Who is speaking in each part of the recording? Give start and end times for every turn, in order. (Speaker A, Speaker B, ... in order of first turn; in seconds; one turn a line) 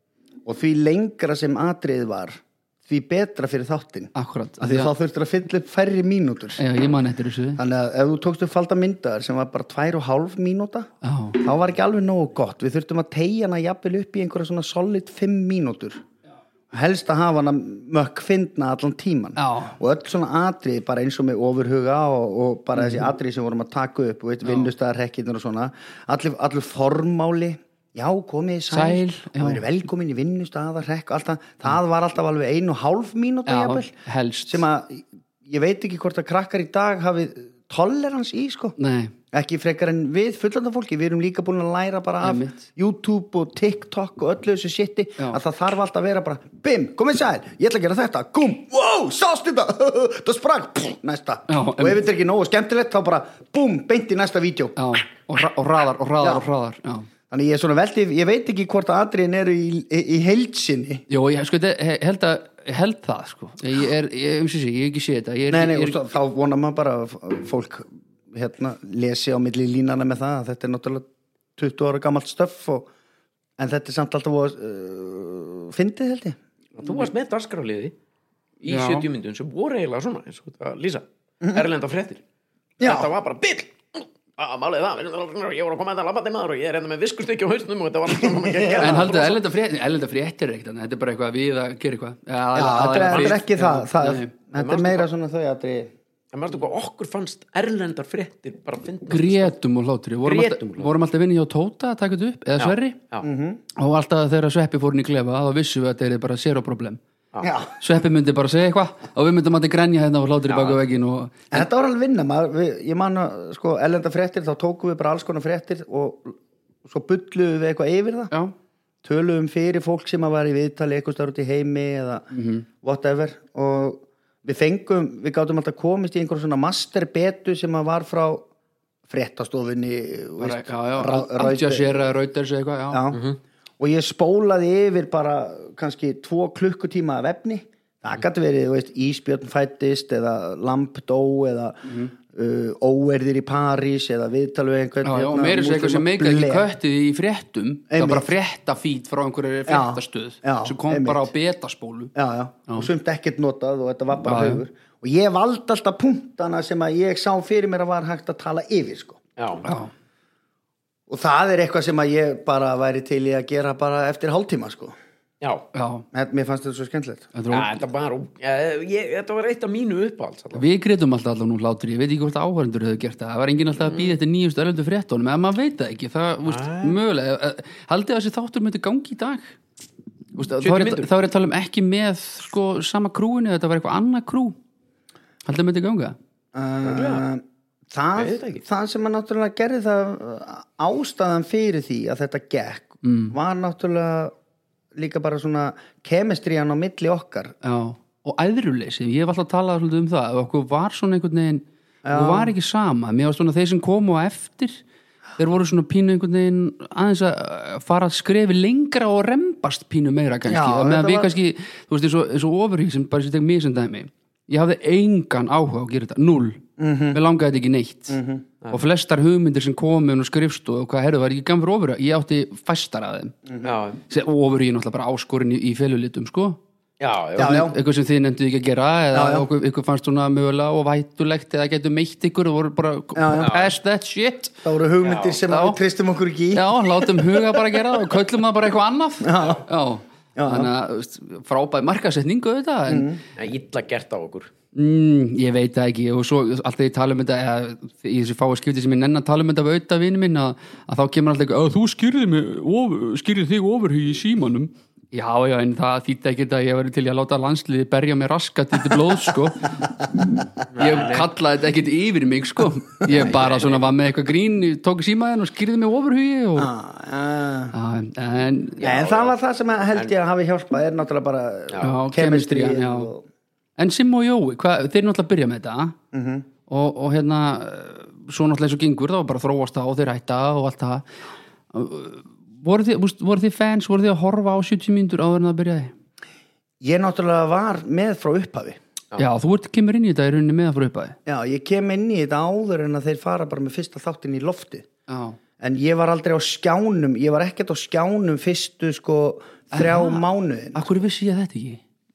Speaker A: 0.4-6.6
Speaker B: 4.1-4.9
Speaker B: 6.6-7.6
Speaker A: 7.5-10.9
Speaker B: 11.0-11.4
Speaker A: 11.4-16.0
Speaker A: 16.7-33.9
Speaker B: 19.4-19.8
Speaker B: 22.8-23.1
Speaker B: 24.4-24.7
Speaker B: 28.7-29.6
Speaker B: 33.5-34.6
Speaker A: 34.5-38.8
Speaker B: 38.8-39.1
Speaker A: 39.3-54.8
Speaker B: 42.2-42.6
Speaker B: 51.5-52.0
Speaker B: 54.8-57.1
Speaker A: 56.2-56.5
Speaker A: 57.3-61.0
Speaker B: 61.1-66.0
Speaker A: 65.5-72.9
Speaker A: 73.6-76.4
Speaker C: 76.8-77.9
Speaker C: 78.6-82.2
Speaker B: 78.7-79.1
Speaker A: 82.8-83.1
Speaker C: 82.8-89.4
Speaker A: 88.2-89.2
Speaker B: 88.8-94.3
Speaker A: 92.5-95.9
Speaker C: 93.0-93.4
Speaker C: 94.5-95.1
Speaker C: 96.3-99.5
Speaker B: 99.1-103.0
Speaker C: 100.2-100.9
Speaker C: 102.6-103.3
Speaker A: 103.2-103.6
Speaker B: 103.8-107.0
Speaker A: 107.4-107.8
Speaker B: 107.8-111.7
Speaker C: 110.5-110.8
Speaker A: 111.5-118.3
Speaker A: 119.0-122.3
Speaker B: 122.3-122.7
Speaker A: 122.8-128.4
Speaker A: 129.1-132.0
Speaker B: 130.4-133.1
Speaker A: 132.9-133.2
Speaker C: 133.1-133.4
Speaker A: 133.8-146.7
Speaker B: 141.9-142.1
Speaker B: 145.0-152.1
Speaker A: 147.9-148.3
Speaker A: 149.7-151.3
Speaker A: 152.1-159.2
Speaker B: 154.2-154.6
Speaker C: 159.4-159.7
Speaker B: 159.6-159.9
Speaker A: 161.1-164.9
Speaker B: 165.7-166.0
Speaker A: 166.1-167.3
Speaker B: 167.3-167.8
Speaker C: 167.5-170.6
Speaker B: 170.6-179.5
Speaker C: 176.4-177.0
Speaker B: 180.3-184.6
Speaker C: 180.6-181.1
Speaker B: 185.4-186.2
Speaker A: 186.5-194.3
Speaker C: 186.8-187.2
Speaker C: 188.2-188.6
Speaker B: 193.0-193.3
Speaker A: 194.9-197.5
Speaker B: 197.6-204.8
Speaker A: 202.0-202.5
Speaker B: 205.4-218.2
Speaker A: 210.5-211.3
Speaker A: 216.8-217.2
Speaker A: 218.1-218.4
Speaker B: 218.7-223.3
Speaker C: 223.6-224.0
Speaker B: 224.1-226.6
Speaker C: 227.0-227.7
Speaker A: 227.4-227.8
Speaker B: 227.4-234.6
Speaker A: 229.1-229.5
Speaker A: 233.1-233.6
Speaker C: 233.4-233.7
Speaker A: 234.6-237.8
Speaker C: 235.0-235.4
Speaker B: 235.5-235.8
Speaker B: 236.5-243.2
Speaker A: 239.2-239.6
Speaker A: 240.3-240.7
Speaker A: 242.9-243.2
Speaker C: 243.4-244.5
Speaker B: 244.7-259.8
Speaker C: 260.7-261.2
Speaker B: 260.8-266.7
Speaker C: 263.1-263.9
Speaker A: 266.6-267.7
Speaker B: 267.7-268.9
Speaker C: 268.8-269.3
Speaker A: 268.8-273.2
Speaker C: 271.7-271.9
Speaker B: 271.8-273.1
Speaker B: 273.8-276.0
Speaker A: 276.1-276.5
Speaker B: 276.7-281.1
Speaker B: 281.7-285.9
Speaker A: 286.8-288.8
Speaker B: 289.2-291.1
Speaker A: 291.2-294.9
Speaker B: 295.1-295.4
Speaker A: 295.6-300.9
Speaker B: 299.7-300.2
Speaker B: 300.7-301.8